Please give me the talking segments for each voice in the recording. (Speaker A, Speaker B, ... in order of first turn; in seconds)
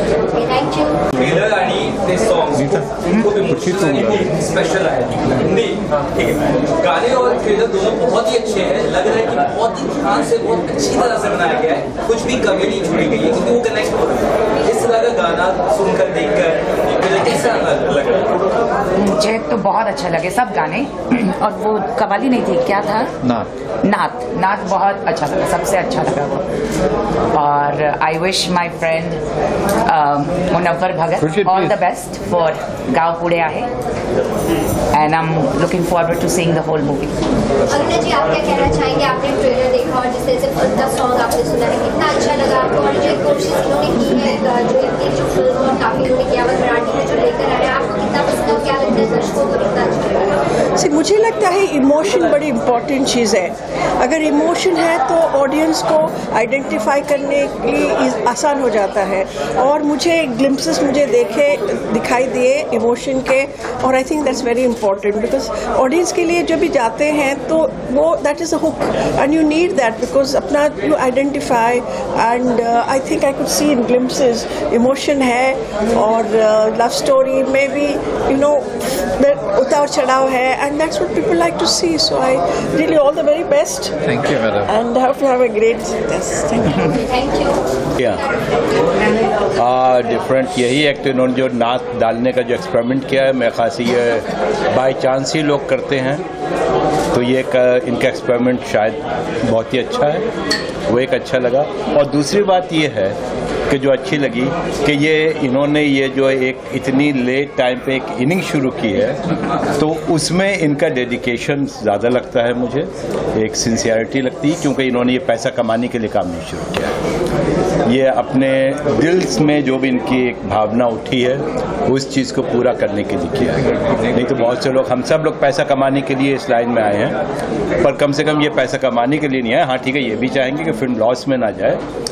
Speaker A: 0.3-1.0, 37.7-50.3
Speaker B: 1.2-18.3
Speaker C: 2.5-4.3, 23.2-23.5, 31.2-31.8, 84.0-84.7
Speaker D: 19.0-23.1, 23.8-26.5, 27.3-29.2, 29.9-33.7, 34.9-37.2
Speaker E: 50.8-83.9, 84.7-87.0
Speaker F: 88.0-88.2, 89.6-96.2, 97.1-100.2, 100.9-103.2, 103.7-109.2, 109.8-117.0, 117.9-127.2, 127.8-131.8